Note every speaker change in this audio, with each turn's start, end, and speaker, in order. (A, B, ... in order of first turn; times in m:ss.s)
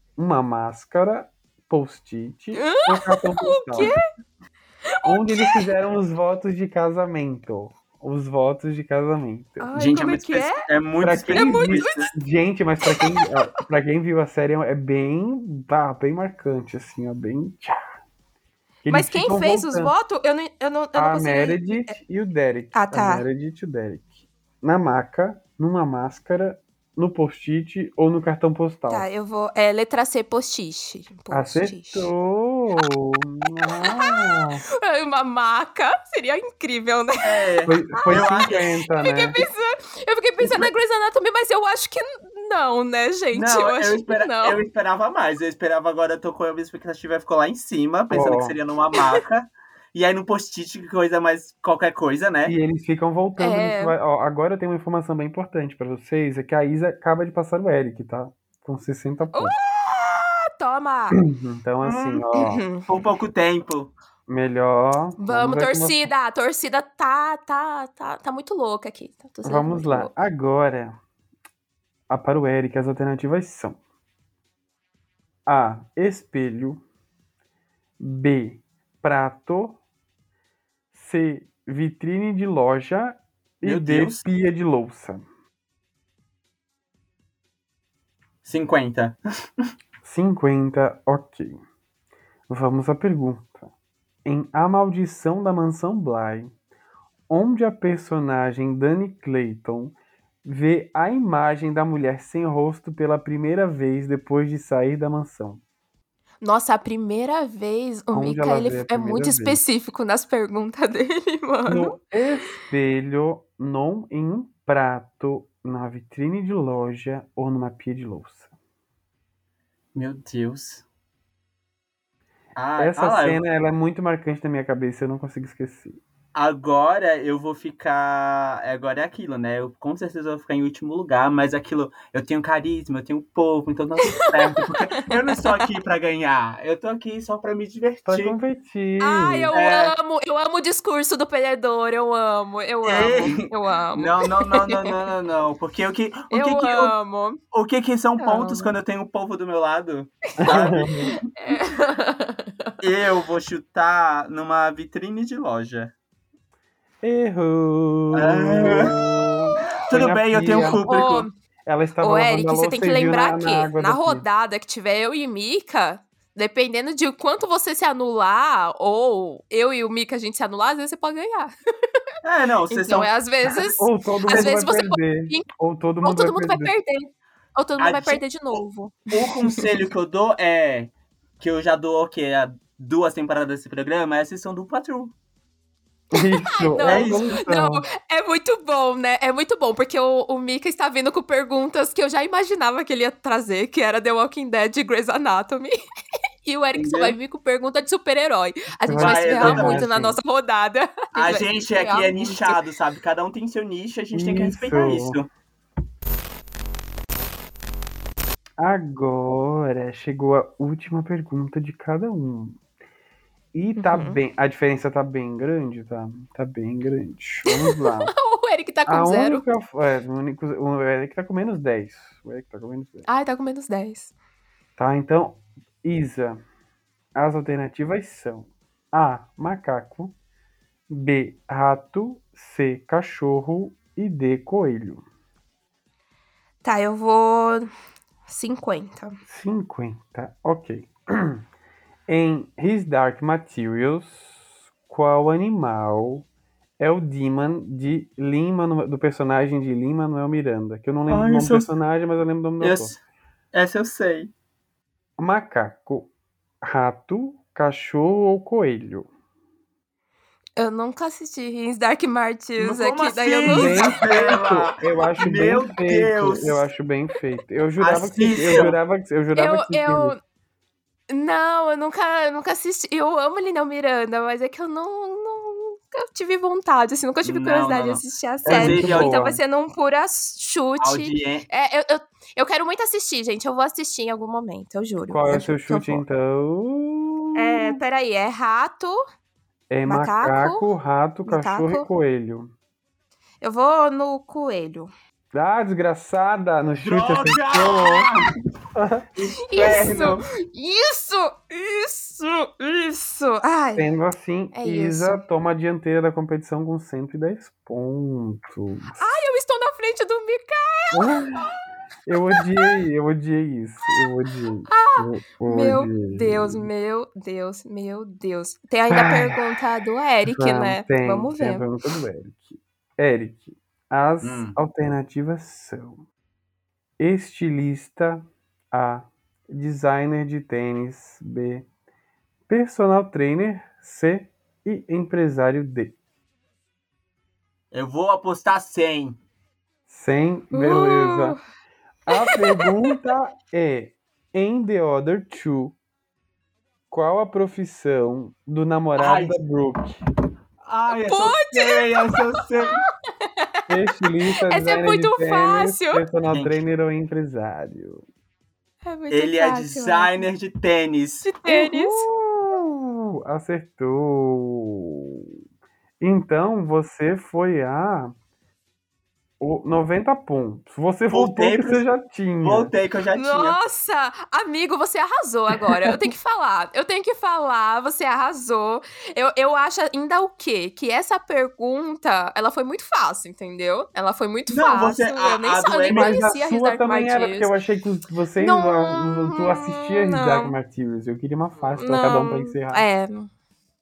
0:00.2-0:03.9 A
0:02.6-0:04.0 B
0:05.0-0:05.7 B
0:05.0-0:09.8 A
0:09.6-0:10.7 B
0:09.8-0:12.1 C
0:11.0-0:17.8 A
0:11.3-0:12.1 B
0:12.8-0:13.4 B
0:18.8-0:19.9 A
0:18.9-0:22.0 B
0:21.0-0:29.0 A
0:22.7-0:23.2 B
0:28.9-0:32.1 B
0:31.3-0:34.6 A
0:33.7-0:44.6 B
0:37.2-0:38.6 C
0:37.7-0:39.4 A
0:40.4-0:40.7 C
0:43.3-0:52.5 C
0:48.1-0:48.6 A
0:52.5-0:59.6 A
0:53.4-0:53.9 B
0:59.3-1:01.2 B
1:01.2-1:02.7 A
1:01.8-1:02.2 C
1:02.4-1:02.8 B
1:02.9-1:03.9 C
1:04.3-1:06.1 A
1:05.2-1:10.1 B
1:09.4-1:11.0 A
1:12.1-1:13.8 A
1:15.5-1:16.8 A
1:18.0-1:19.8 A
1:20.9-1:25.2 A
1:23.6-1:24.2 C
1:28.4-1:29.2 C
1:30.0-1:31.6 A
1:32.5-1:33.7 A
1:34.2-1:36.5 A
1:37.3-1:45.6 A
1:46.4-1:51.9 B
1:48.1-1:49.6 A
1:51.7-1:58.5 A
2:00.0-2:00.8 C
2:02.6-2:03.4 C
2:02.8-2:06.0 A
2:06.3-2:18.4 C
2:14.0-2:15.6 B
2:18.1-2:19.5 A
2:19.0-2:25.0 B
2:19.5-2:19.9 C
2:22.8-2:26.9 C
2:26.3-2:27.4 B
2:27.5-2:31.3 C
2:28.2-2:28.7 B
2:30.4-2:31.1 A
2:31.4-2:32.7 B
2:32.8-2:35.9 C
2:37.0-2:40.8 A
2:38.1-2:39.0 C
2:39.8-2:41.3 C
2:40.9-2:41.3 B
2:41.7-2:44.2 A
2:42.0-2:51.5 B
2:52.2-2:53.1 C
2:52.7-2:55.5 B
2:53.8-2:56.7 A
2:56.0-2:59.7 B
2:57.8-3:05.1 C
3:06.1-3:07.8 A
3:06.1-3:15.7 B
3:06.8-3:07.3 C
3:16.4-3:22.6 B
3:16.8-3:17.2 C
3:18.9-3:20.2 A
3:19.0-3:19.9 C
3:21.2-3:25.3 C
3:24.1-3:25.2 A
3:28.6-3:32.6 A
3:33.6-3:38.1 A
3:33.8-3:34.2 B
3:37.5-3:39.4 B
3:38.9-3:43.1 A
3:43.1-3:44.1 B
3:44.8-3:46.4 A
3:47.2-3:50.2 A
3:50.9-3:55.0 A
3:56.6-3:57.7 B
3:58.3-3:59.2 B
3:59.3-4:01.4 A
4:02.1-4:06.3 A
4:06.8-4:13.0 A
4:11.1-4:11.7 C
4:12.6-4:13.0 C
4:13.5-4:14.3 C
4:15.2-4:19.1 A
4:20.6-4:24.0 B
4:22.6-4:26.6 C
4:23.5-4:30.2 A
4:27.8-4:28.8 C
4:29.4-4:30.2 B
4:31.1-4:46.0 B
4:37.2-4:39.3 C
4:38.5-4:39.4 A
4:40.8-4:41.5 C
4:45.1-4:47.8 A
4:47.4-4:49.0 B
4:49.7-4:52.5 A
4:49.9-4:50.7 B
4:51.2-4:51.8 B
4:53.4-4:54.9 B
4:55.3-4:58.1 A
4:56.8-4:58.3 C
4:58.8-4:59.0 A
4:59.2-5:00.2 C
4:59.5-5:03.9 B
5:03.8-5:09.0 A
5:04.5-5:05.2 B
5:09.0-5:11.2 B
5:10.9-5:11.5 A
5:12.1-5:16.7 A
5:12.4-5:12.7 B
5:14.7-5:21.7 B
5:18.9-5:19.4 A
5:20.3-5:26.0 A
5:24.2-5:24.6 C
5:27.0-5:31.7 A
5:32.5-5:36.0 A
5:37.7-5:39.2 C
5:39.9-5:41.4 A
5:40.5-5:41.4 B
5:42.1-5:45.8 A
5:42.1-5:42.9 B
5:46.9-5:50.0 A
5:49.0-5:49.4 C
5:50.6-5:52.8 C
5:50.9-5:52.3 B
5:53.2-5:53.6 B
5:53.7-5:58.0 A
5:54.5-5:56.0 B
5:56.3-5:56.6 C
5:58.8-6:00.3 B
5:59.1-6:01.3 C
6:01.2-6:02.1 B
6:01.4-6:05.3 A
6:06.0-6:08.1 A
6:09.4-6:12.7 A
6:11.1-6:11.8 C
6:12.4-6:13.6 C
6:13.2-6:27.5 B
6:24.5-6:26.2 C
6:25.9-6:32.8 A
6:28.4-6:30.5 B
6:31.7-6:33.3 B